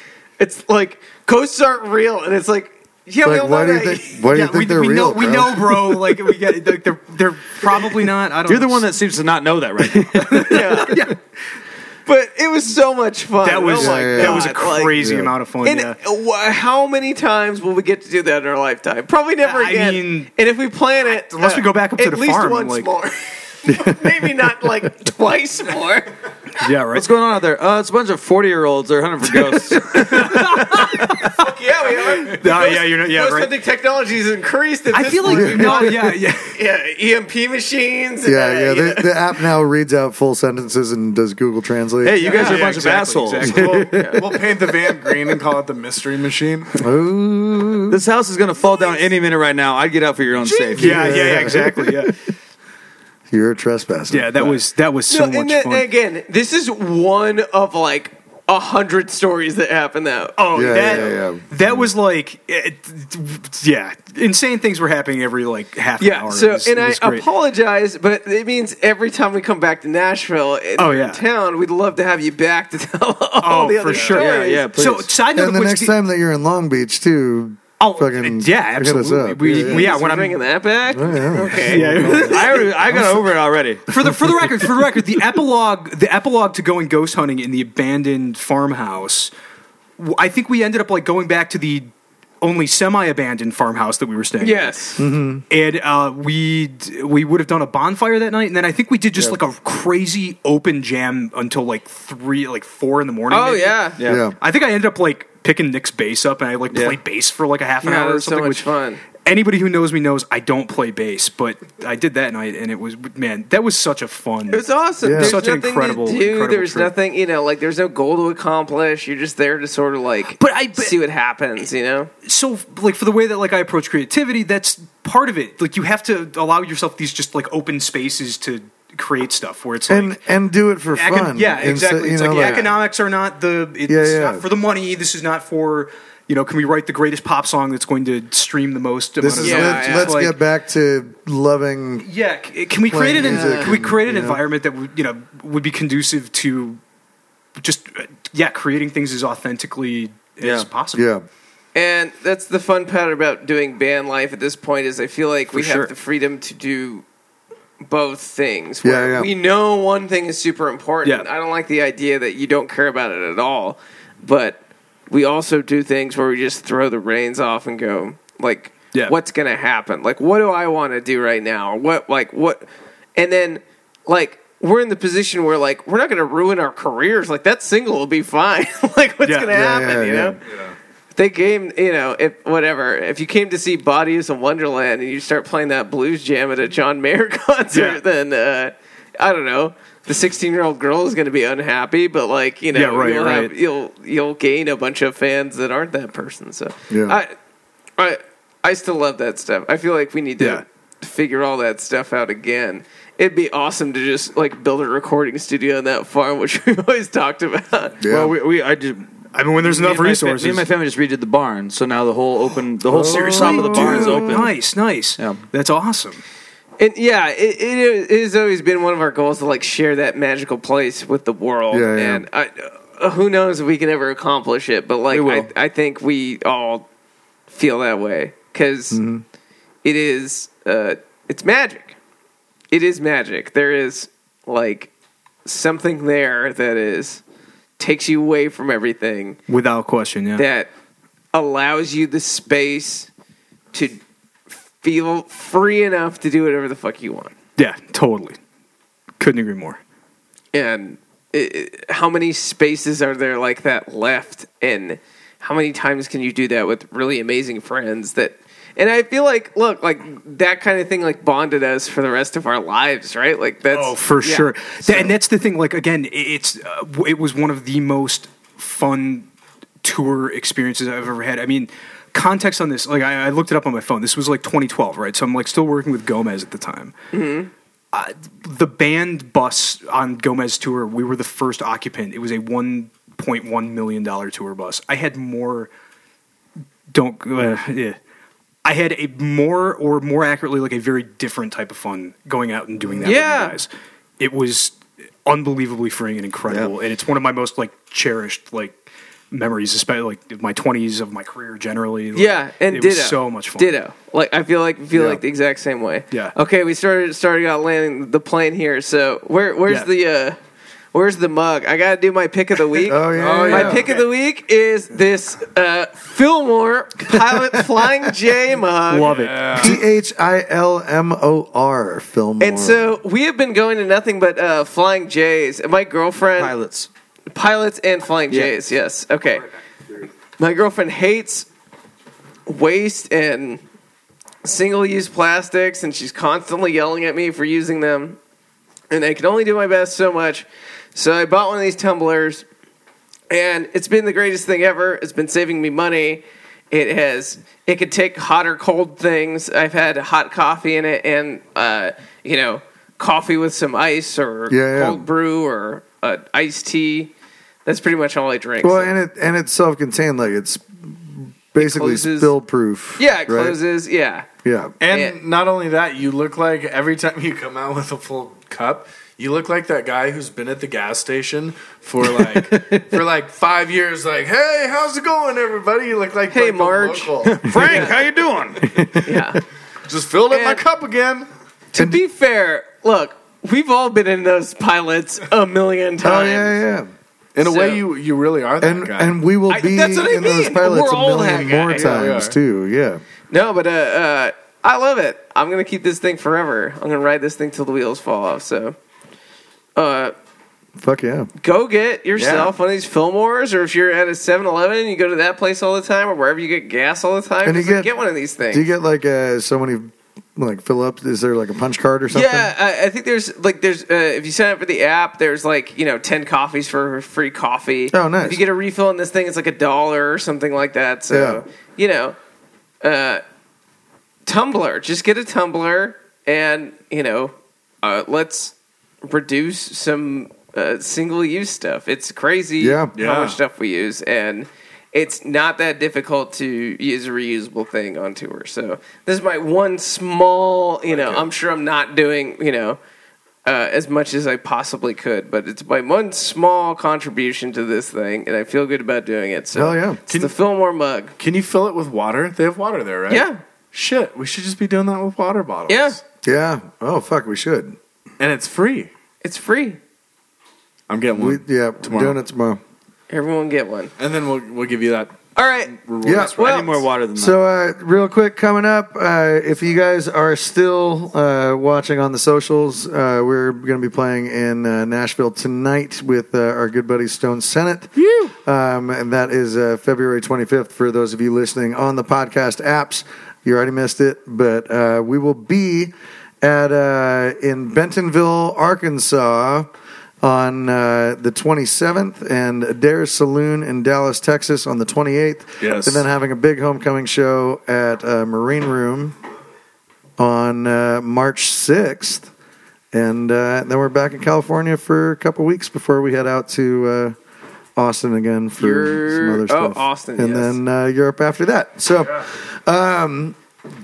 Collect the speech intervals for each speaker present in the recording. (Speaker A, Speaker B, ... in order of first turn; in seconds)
Speaker A: 0.4-4.2, 10.5-11.1, 12.1-15.0, 15.6-26.1, 30.6-39.2, 43.9-44.2, 55.1-61.0, 66.0-74.7, 79.5-82.8, 94.4-95.0, 103.3-104.0, 107.8-109.0, 114.5-122.1, 132.3-132.7, 139.4-140.2, 143.2-143.8, 151.7-157.0, 157.8-164.6, 165.1-180.4, 181.1-197.3, 198.0-208.0, 216.8-226.8, 227.5-229.0, 229.8-232.0, 232.7-234.9, 235.4-237.2, 237.8-239.4, 240.3-240.7, 241.3-243.1, 243.7-244.0, 244.8-247.3, 250.5-265.1, 277.1-277.5, 293.0-293.6, 302.1-310.4, 310.9-319.1, 322.4-326.5, 327.3-329.4, 330.4-331.5, 332.4-333.6, 334.4-338.2, 338.9-342.4, 343.3-357.1, 357.6-358.9, 361.6-362.3, 363.0-364.2, 364.8-365.2, 376.3-378.0, 379.0-379.4, 380.3-380.6, 381.7-386.6, 387.4-387.8, 389.5-392.2, 393.3-398.8, 399.8-400.1, 401.4-408.6, 412.1-422.1, 422.8-423.2, 424.2-442.8, 443.4-451.1, 453.1-453.4, 455.7-456.0, 459.2-459.8, 463.1-463.9, 465.3-466.7, 478.0-478.3, 508.6-510.6
Speaker B: 3.2-6.2, 13.8-15.3, 35.3-35.9, 38.2-42.6, 43.4-44.4, 46.8-48.0, 50.7-52.0, 53.3-54.6, 60.5-61.9, 75.3-79.9, 80.9-82.4, 84.0-84.5, 95.0-95.4, 104.0-104.3, 115.0-115.4, 129.9-132.7, 133.9-134.4, 139.2-142.1, 142.8-144.4, 150.9-151.2, 158.8-159.3, 179.5-180.4, 196.9-197.2, 208.0-208.3, 212.9-214.5, 221.7-222.2, 228.9-229.2, 304.9-305.2, 312.9-313.9, 317.1-317.8, 319.6-322.9, 354.5-355.0, 358.6-363.6, 364.4-364.7, 372.0-373.0, 378.6-379.3, 381.8-382.0, 386.0-386.9, 388.6-393.0, 400.8-401.3, 407.4-407.9, 408.5-412.5, 417.9-418.4, 421.1-421.4, 432.6-432.9, 449.5-450.0, 456.2-457.7, 461.2-462.6, 466.0-466.4, 467.1-489.7, 490.2-499.2, 500.2-502.3, 502.9-507.1, 507.8-513.4
Speaker C: 4.3-8.8, 10.1-11.2, 13.4-15.9, 19.4-20.3, 21.3-22.9, 26.6-27.1, 29.3-33.5, 34.9-36.5, 42.2-44.0, 50.8-52.3, 54.1-55.9, 60.4-67.2, 70.8-71.2, 73.4-75.9, 77.8-80.4, 81.5-83.2, 83.9-89.3, 90.0-91.9, 92.4-94.8, 95.5-103.8, 104.4-116.9, 120.4-120.9, 122.2-130.2, 130.9-140.3, 142.0-146.8, 147.6-151.1, 155.5-155.9, 187.7-188.0, 192.7-193.5, 200.4-200.6, 209.3-210.7, 213.0-216.2, 239.5-240.4, 247.6-248.4, 249.2-249.8, 263.7-269.3, 269.8-276.9, 277.9-285.7, 286.9-288.0, 288.6-293.7, 294.2-303.7, 318.9-319.8
Speaker D: 8.5-10.7, 26.9-31.2, 42.0-43.6, 47.9-51.4, 74.1-75.1, 82.2-83.8, 104.0-104.2, 106.7-107.0, 150.4-150.7, 208.1-214.5, 225.1-225.5, 326.4-326.9, 328.3-328.5, 377.2-378.7, 402.2-402.5, 466.4-467.4
Speaker E: 43.5-46.8, 73.9-74.2, 313.1-314.1, 319.1-319.8, 364.8-377.9, 379.9-381.3, 387.3-389.2, 391.7-392.4, 432.9-433.4, 440.9-441.3, 450.1-450.3, 451.2-456.0, 458.2-458.9, 460.9-462.2, 464.0-465.2, 465.7-466.8, 495.6-496.0